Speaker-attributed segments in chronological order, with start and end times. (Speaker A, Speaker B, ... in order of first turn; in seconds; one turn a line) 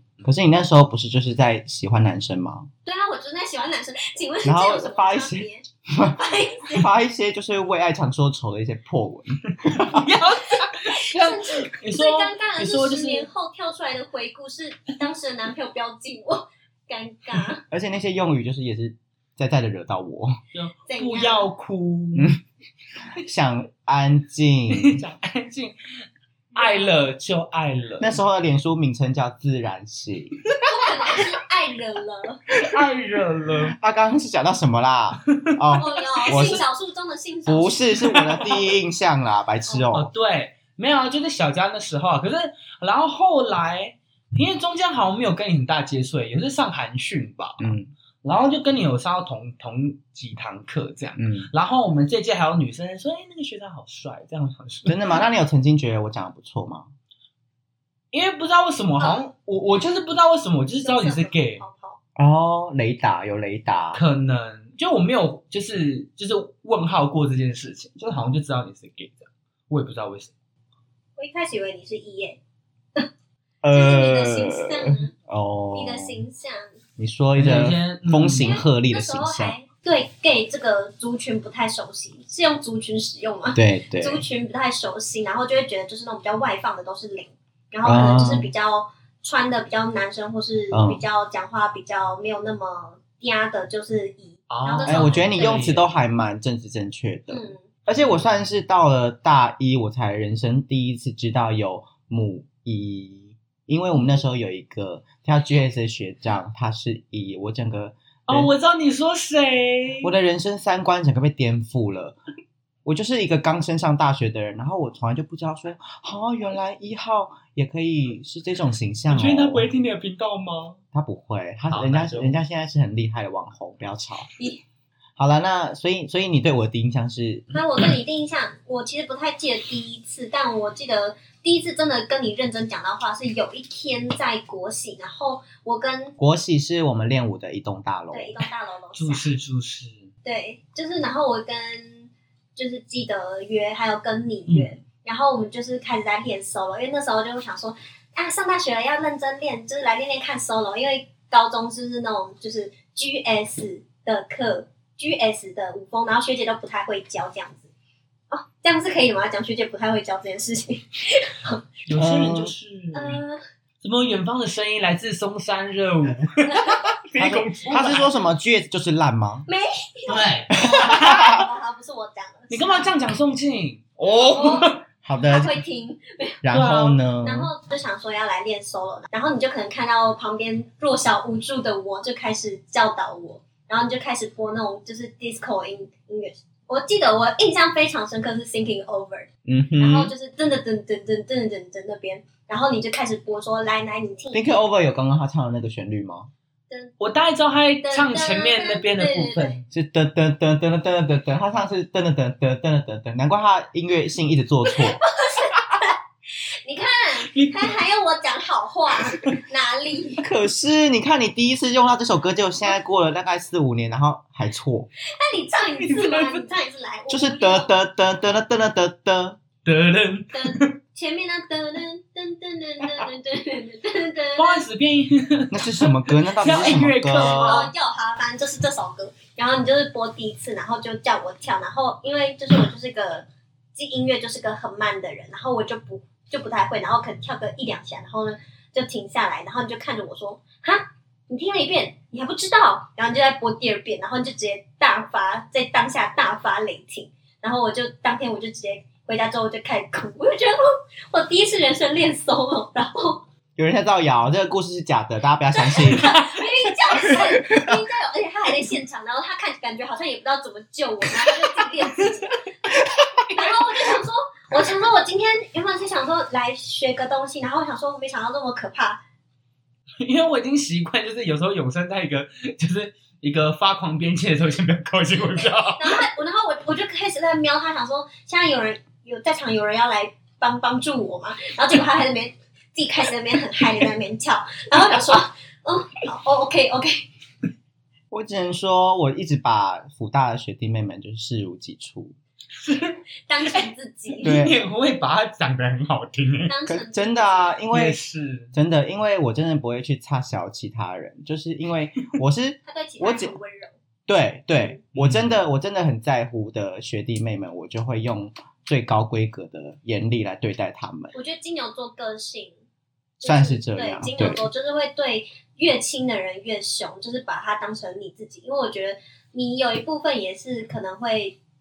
Speaker A: 0.2-2.7
Speaker B: 2.8-6.9
Speaker A: 4.4-10.0
Speaker C: 9.8-13.3
Speaker B: 10.5-17.6
Speaker A: 17.7-20.4
Speaker C: 20.5-22.3
Speaker B: 20.9-21.5
Speaker A: 22.1-22.4
Speaker A: 23.1-25.0
Speaker C: 24.7-25.7
Speaker C: 26.5-28.2
Speaker B: 26.6-26.9
Speaker A: 28.0-30.4
Speaker C: 30.5-30.8
Speaker B: 30.7-32.4
Speaker C: 32.6-33.7
Speaker A: 33.6-36.6
Speaker B: 35.7-37.8
Speaker A: 37.5-40.1
Speaker C: 38.0-38.6
Speaker C: 39.9-55.2
Speaker A: 47.6-47.9
Speaker A: 51.2-51.5
Speaker A: 54.9-56.9
Speaker C: 58.1-61.6
Speaker B: 60.8-62.0
Speaker A: 62.2-64.0
Speaker C: 63.9-70.3
Speaker B: 71.2-72.4
Speaker A: 73.6-76.2
Speaker B: 73.7-75.1
Speaker B: 75.7-76.7
Speaker A: 77.0-79.5
Speaker C: 77.4-78.6
Speaker B: 78.4-95.6
Speaker A: 83.5-84.2
Speaker A: 87.8-88.5
Speaker A: 90.7-91.0
Speaker C: 94.5-95.9
Speaker A: 94.8-108.5
Speaker B: 97.3-97.7
Speaker C: 108.3-110.1
Speaker A: 110.0-112.2
Speaker A: 112.8-119.7
Speaker C: 119.1-120.8
Speaker A: 120.9-124.3
Speaker C: 121.7-122.4
Speaker B: 124.4-124.6
Speaker A: 125.2-127.5
Speaker B: 127.5-136.2
Speaker A: 136.2-138.3
Speaker B: 138.1-139.3
Speaker C: 138.9-140.1
Speaker B: 140.2-157.7
Speaker C: 144.5-144.8
Speaker B: 158.3-161.7
Speaker C: 161.8-163.2
Speaker A: 161.9-162.5
Speaker B: 162.9-163.4
Speaker C: 163.8-168.1
Speaker B: 166.5-166.9
Speaker A: 167.2-169.4
Speaker B: 169.5-172.9
Speaker C: 170.1-171.4
Speaker A: 170.5-171.4
Speaker C: 172.5-174.8
Speaker B: 174.1-174.7
Speaker A: 175.0-175.6
Speaker B: 175.2-176.4
Speaker A: 176.4-177.5
Speaker C: 176.5-177.0
Speaker B: 177.1-194.5
Speaker A: 189.4-190.1
Speaker A: 194.3-196.3
Speaker B: 196.7-196.9
Speaker C: 197.0-199.6
Speaker B: 197.8-199.6
Speaker A: 199.7-205.0
Speaker B: 204.7-206.0
Speaker B: 206.5-210.2
Speaker C: 207.2-207.8
Speaker A: 210.2-214.9
Speaker B: 215.0-217.7
Speaker C: 215.8-216.4
Speaker A: 217.1-219.4
Speaker C: 219.6-220.7
Speaker B: 220.3-224.6
Speaker C: 224.4-227.7
Speaker A: 225.5-227.7
Speaker B: 227.1-253.2
Speaker A: 253.6-256.1
Speaker B: 255.5-262.4
Speaker C: 256.0-257.2
Speaker C: 262.0-262.4
Speaker C: 263.3-263.6
Speaker B: 263.3-269.0
Speaker C: 270.0-276.0
Speaker B: 275.8-287.1
Speaker A: 288.1-292.1
Speaker C: 292.6-296.5
Speaker B: 293.3-294.4
Speaker A: 294.2-294.6
Speaker B: 296.4-297.6
Speaker A: 296.6-298.0
Speaker C: 297.7-298.5
Speaker A: 298.5-303.4
Speaker B: 302.6-303.7
Speaker A: 304.1-311.1
Speaker C: 304.9-305.4
Speaker B: 311.1-312.5
Speaker B: 313.2-321.4
Speaker A: 313.2-314.5